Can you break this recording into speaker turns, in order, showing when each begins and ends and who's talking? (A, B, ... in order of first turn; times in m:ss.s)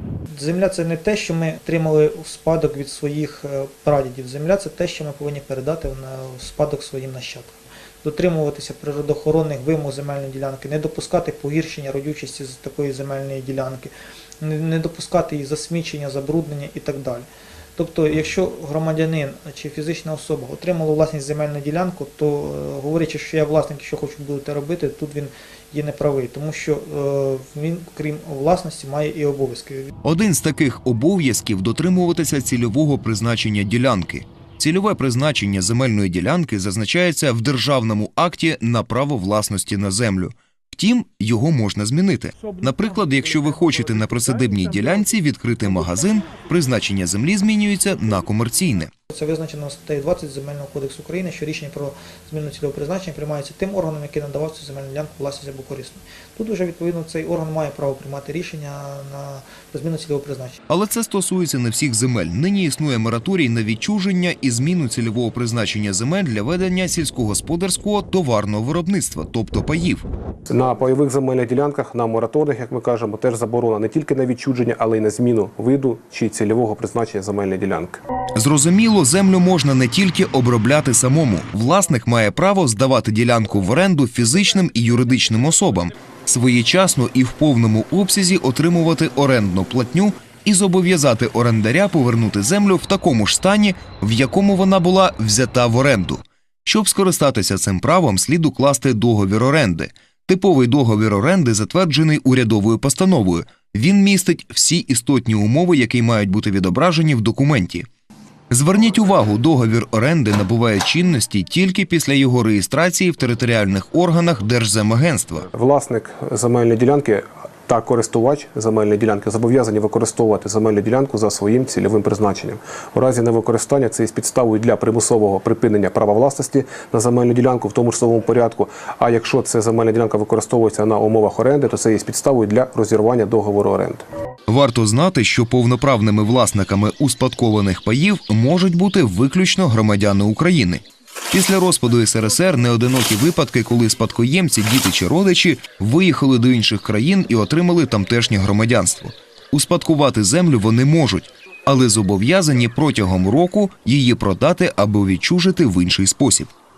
0:00.3-0:29.9 A
0:30.0-0:48.9 B
0:49.1-1:00.6 A
1:00.7-1:10.0 B
1:10.5-1:18.0 C
1:18.4-1:47.9 B
1:48.5-1:55.5 B
1:55.5-2:14.0 C
2:14.5-2:36.5 B